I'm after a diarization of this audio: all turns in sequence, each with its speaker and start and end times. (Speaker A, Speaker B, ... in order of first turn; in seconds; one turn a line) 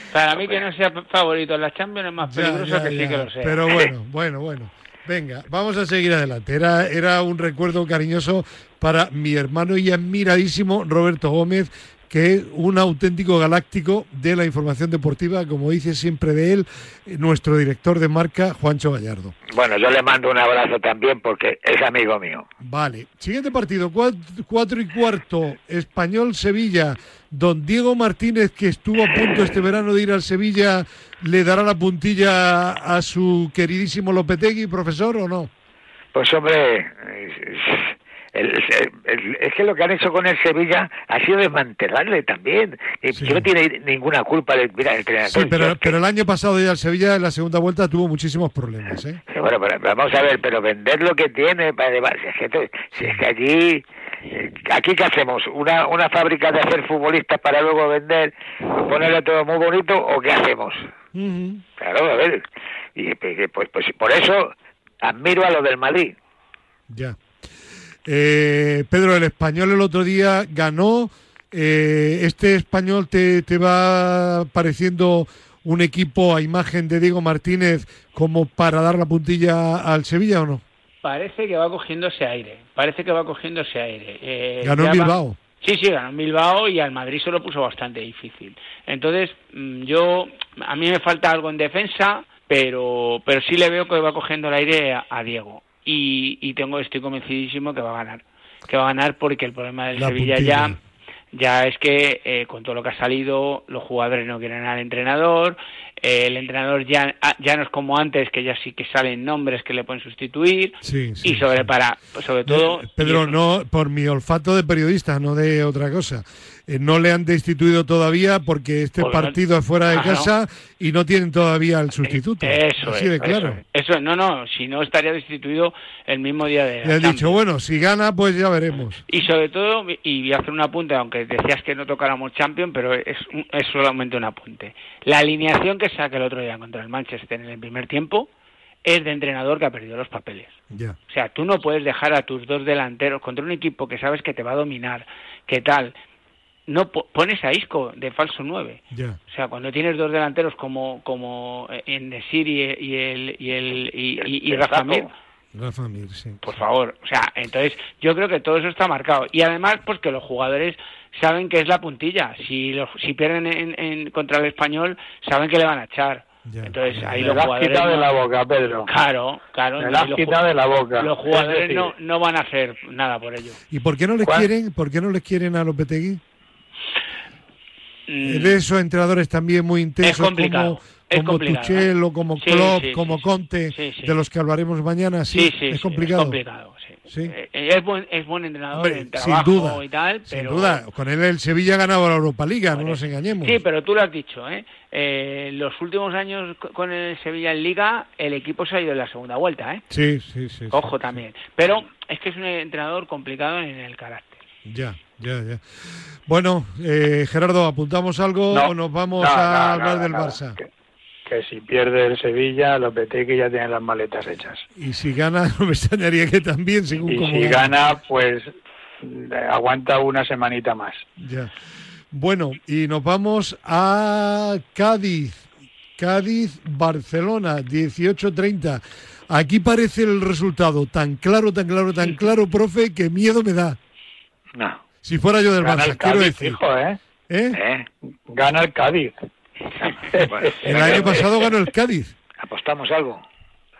Speaker A: 0.1-3.6
Speaker B: 2.2-19.3
Speaker C: 19.5-22.5
Speaker B: 22.6-35.5
Speaker C: 36.1-45.9
Speaker B: 43.1-43.5
Speaker B: 45.2-49.2
Speaker C: 49.3-60.9
Speaker B: 61.1-61.6
Speaker C: 61.8-62.4
Speaker C: 63.0-66.1
Speaker B: 66.9-67.2
Speaker B: 68.0-80.6
Speaker A: 81.0-100.8
Speaker B: 84.6-85.4
Speaker B: 99.9-100.8
Speaker A: 101.3-113.4
Speaker B: 110.8-111.7
Speaker B: 112.5-123.6
Speaker A: 119.0-120.3
Speaker A: 122.0-127.4
Speaker B: 126.8-129.0
Speaker A: 129.0-138.3
Speaker A: 138.8-145.9
Speaker B: 140.7-141.0
Speaker A: 146.7-155.1
Speaker B: 148.9-149.2
Speaker C: 154.5-155.1
Speaker B: 155.5-156.4
Speaker A: 156.4-168.2
Speaker B: 166.4-167.5
Speaker D: 167.2-168.9
Speaker A: 168.9-170.4
Speaker D: 169.8-171.9
Speaker A: 171.0-173.6
Speaker B: 173.7-176.2
Speaker D: 174.2-174.5
Speaker A: 178.1-178.6
Speaker B: 178.2-186.4
Speaker A: 180.0-184.2
Speaker A: 185.3-190.8
Speaker B: 187.1-187.3
Speaker B: 188.7-193.6
Speaker A: 192.7-199.8
Speaker B: 199.9-201.2
Speaker A: 200.7-204.4
Speaker B: 204.6-210.6
Speaker D: 208.5-210.7
Speaker D: 211.2-214.6
Speaker B: 214.8-217.7
Speaker D: 217.1-218.5
Speaker D: 219.0-221.0
Speaker B: 221.2-221.5
Speaker B: 222.1-233.8
Speaker B: 235.0-236.6
Speaker D: 235.6-237.0
Speaker B: 237.3-237.6
Speaker C: 237.5-237.9
Speaker D: 238.3-239.1
Speaker D: 240.1-240.9
Speaker C: 240.2-241.2
Speaker B: 240.6-242.1
Speaker C: 242.4-243.2